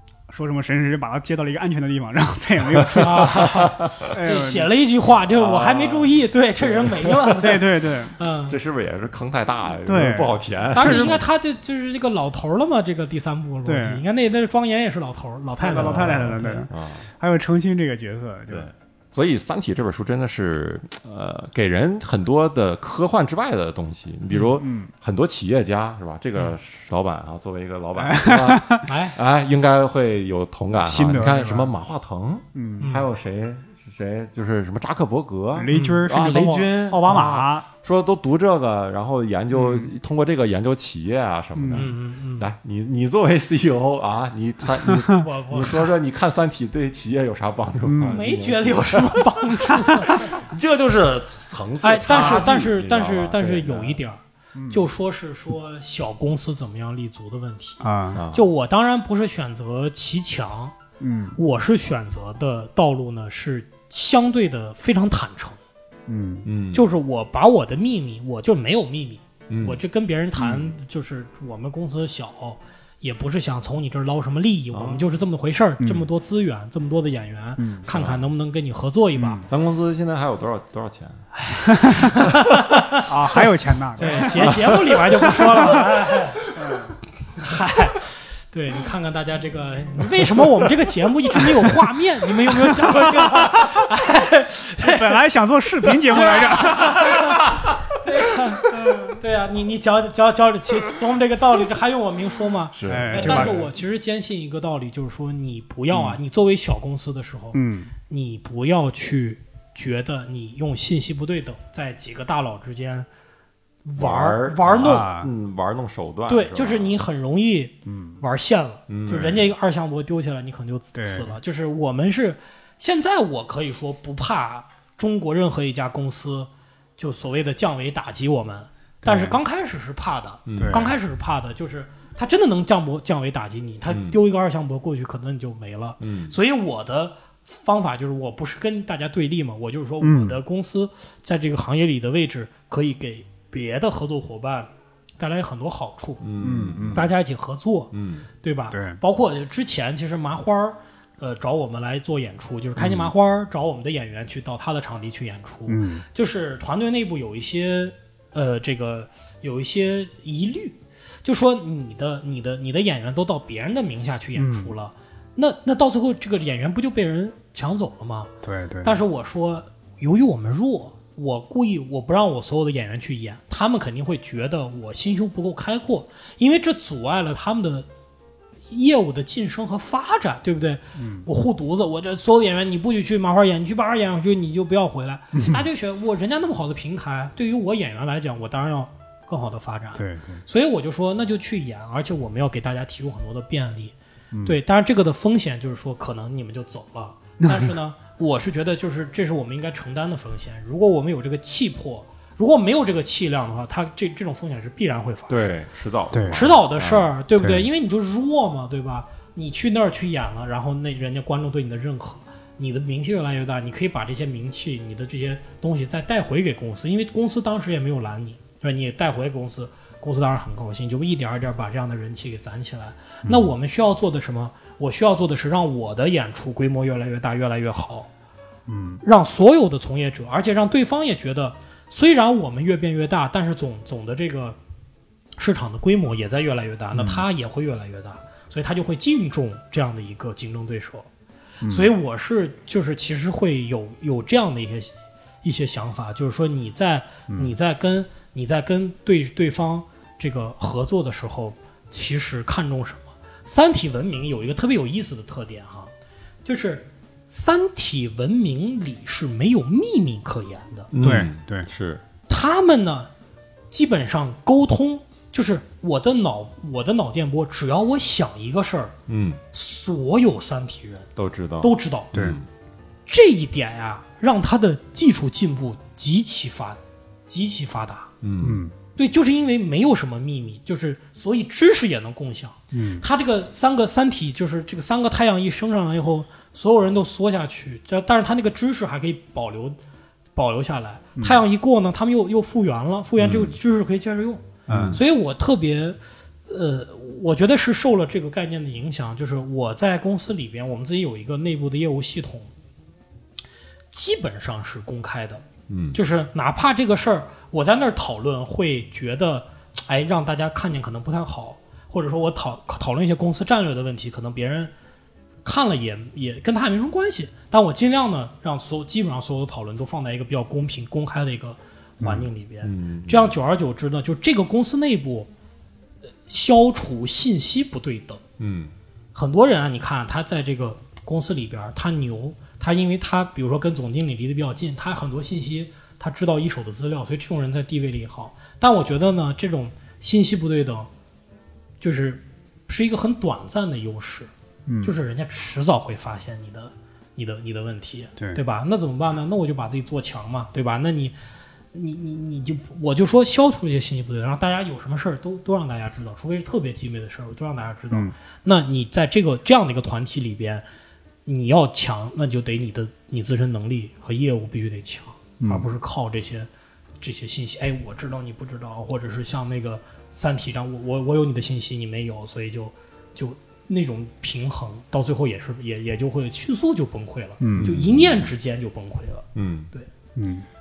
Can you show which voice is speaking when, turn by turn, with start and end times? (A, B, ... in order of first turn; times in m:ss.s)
0:00.3-0:04.7 A
0:03.0-0:08.6 B
0:03.0-0:04.0 C
0:05.3-0:07.3 C
0:07.3-0:08.1 A
0:08.5-0:11.2 C
0:09.8-0:11.2 A
0:10.7-0:16.7 B
0:13.6-0:14.0 A
0:15.6-0:18.7 A
0:15.8-0:17.1 C
0:18.5-0:49.3 C
0:24.3-0:24.6 B
0:24.6-0:24.9 A
0:28.0-0:28.9 A
0:28.8-0:29.2 B
0:30.8-0:31.7 A
0:32.6-0:32.9 A
0:32.8-0:33.1 B
0:35.5-0:37.6 A
0:35.7-0:36.0 B
0:39.5-0:39.9 A
0:41.6-0:41.9 A
0:41.7-0:42.5 B
0:45.1-0:45.9 B
0:47.8-0:48.2 A
0:48.1-0:50.3 B
0:50.2-0:54.0 C
0:51.8-1:00.7 B
0:52.1-0:52.6 A
0:54.6-0:54.8 A
0:57.8-0:58.2 A
0:58.1-0:58.5 C
1:01.0-1:01.4 A
1:01.4-1:05.6 B
1:06.1-1:06.5 A
1:06.4-1:06.9 C
1:06.7-1:19.4 B
1:09.5-1:09.8 C
1:10.4-1:10.7 A
1:14.7-1:15.0 C
1:15.8-1:16.1 A
1:17.6-1:17.9 A
1:17.9-1:18.2 C
1:19.2-1:19.5 A
1:19.5-1:21.2 C
1:21.4-1:23.0 B
1:21.7-1:22.1 A
1:23.0-1:25.9 A
1:24.0-1:26.4 B
1:24.0-1:24.7 C
1:26.6-1:26.9 A
1:27.4-1:35.2 B
1:32.6-1:33.6 A
1:34.8-1:37.3 A
1:36.1-1:37.4 B
1:38.0-1:53.1 B
1:42.7-1:43.6 C
1:42.9-1:43.7 A
1:47.5-1:47.9 A
1:53.8-1:55.1 B
1:54.0-1:57.0 C
1:54.7-1:55.3 A
1:56.3-2:26.3 B
1:57.9-1:58.2 A
1:58.9-1:59.5 C
2:00.9-2:01.4 A
2:09.0-2:09.4 A
2:10.5-2:10.9 C
2:10.6-2:11.0 A
2:13.9-2:14.2 C
2:16.0-2:16.4 C
2:20.0-2:20.4 A
2:26.2-2:27.1 C
2:26.4-2:27.1 A
2:26.9-2:48.3 B
2:27.9-2:28.3 C
2:28.7-2:29.0 A
2:32.8-2:33.1 A
2:35.7-2:36.0 A
2:44.4-2:44.7 A
2:48.4-2:49.0 A
2:48.8-2:57.9 B
2:58.7-3:25.5 B
3:01.0-3:01.3 A
3:05.3-3:05.6 A
3:10.0-3:10.4 A
3:14.3-3:14.6 A
3:17.4-3:17.7 A
3:25.3-3:27.1 C
3:26.1-3:26.4 A
3:26.3-3:48.1 B
3:27.4-3:27.7 A
3:48.7-3:49.0 A
3:49.0-3:54.6 B
3:55.4-4:01.1 B
3:56.9-3:57.2 A
4:01.6-4:01.9 A
4:01.7-4:15.9 B
4:07.3-4:07.5 A
4:16.4-4:20.9 B
4:20.9-4:22.0 C
4:21.0-4:21.7 A
4:22.3-4:23.1 B
4:23.7-4:28.9 B
4:29.1-4:29.4 C
4:29.5-4:31.1 B
4:31.2-4:32.4 C
4:31.6-4:32.1 B
4:33.1-4:38.1 B
4:38.2-4:38.6 C
4:38.4-4:38.7 A
4:39.0-4:49.8 B
4:42.7-4:43.0 A
4:50.3-5:02.5 B
4:51.2-4:51.4 A
4:53.2-4:53.6 C
4:54.7-4:55.0 A
4:54.7-4:55.0 C
5:03.9-5:14.7 B
5:05.7-5:06.0 C
5:15.4-5:25.3 B
5:22.0-5:22.3 A
5:22.6-5:23.3 C
5:26.3-5:28.2 B
5:28.4-5:28.7 C
5:29.1-5:40.9 B
5:41.8-5:44.3 B
5:44.7-5:45.0 A
5:44.8-5:51.2 B
5:51.7-6:00.6 B
6:01.2-6:06.5 B
6:05.4-6:05.7 A
6:07.0-6:19.9 B
6:17.4-6:17.8 A
6:17.6-6:18.3 C
6:19.3-6:19.7 C
6:20.2-6:20.4 A